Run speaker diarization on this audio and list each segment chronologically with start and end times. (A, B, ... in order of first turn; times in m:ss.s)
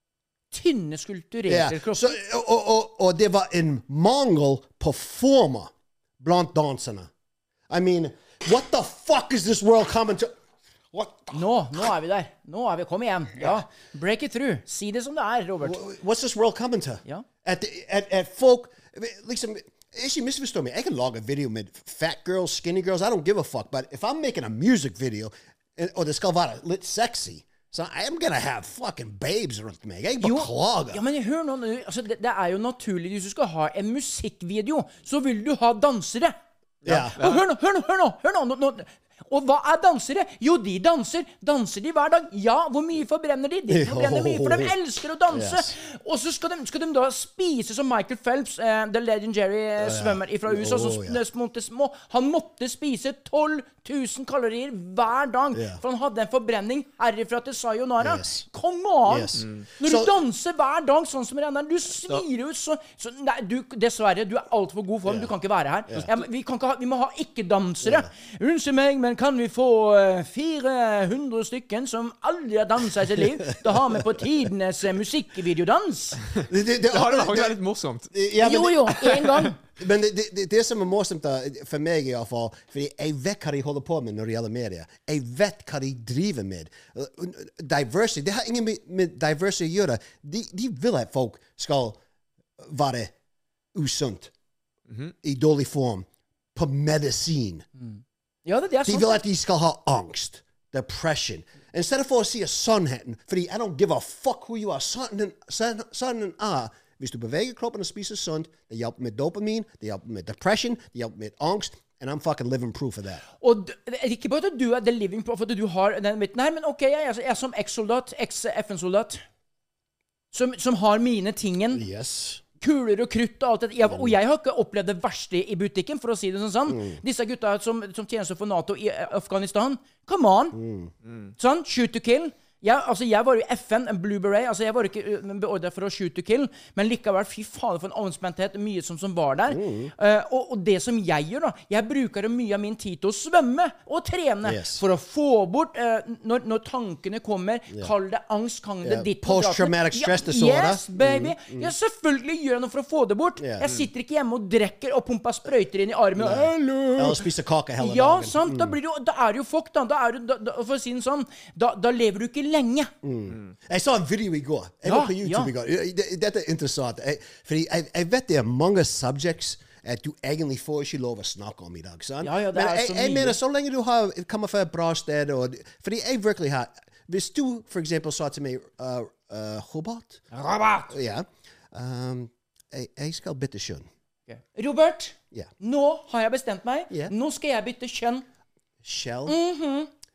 0:00.5-0:02.2 A
0:01.5-0:07.1 B
0:07.7-0:10.3 B
0:10.9-0:11.5 B
0:11.3-0:15.8 A
0:15.6-0:31.0 B
0:30.2-0:36.4 A
0:36.8-0:37.2 B
0:36.9-0:37.4 C
0:37.0-1:16.2 A
0:43.7-0:44.7 B
0:45.3-0:45.7 B
0:49.8-0:51.2 B
0:55.5-0:55.8 B
0:58.0-0:58.5 B
0:59.1-1:00.2 B
0:59.4-0:59.6 C
1:16.5-1:17.6 B
1:16.9-1:18.1 C
1:18.1-1:32.0 B
1:18.4-1:19.6 A
1:32.6-1:33.1 B
1:33.7-1:34.3 B
1:35.2-1:37.7 B
1:37.8-1:39.1 A
1:38.8-1:53.2 B
1:53.4-1:59.2 A
2:00.3-2:01.8 A
2:01.7-2:02.4 B
2:02.6-2:10.6 A
2:03.9-2:04.2 B
2:06.7-2:07.0 B
2:10.5-2:10.9 B
2:11.4-2:37.3 A
2:19.5-2:19.9 B
2:24.4-2:24.8 B
2:28.8-2:31.7 B
2:33.4-2:33.7 B
2:36.2-2:38.8 B
2:37.8-2:42.9 A
2:43.0-3:00.2 B
2:44.8-2:45.5 A
2:52.2-2:53.4 A
3:00.3-3:00.9 A
3:00.9-3:03.9 B
3:04.3-3:08.2 A
3:08.8-3:09.4 B
3:09.3-3:09.9 A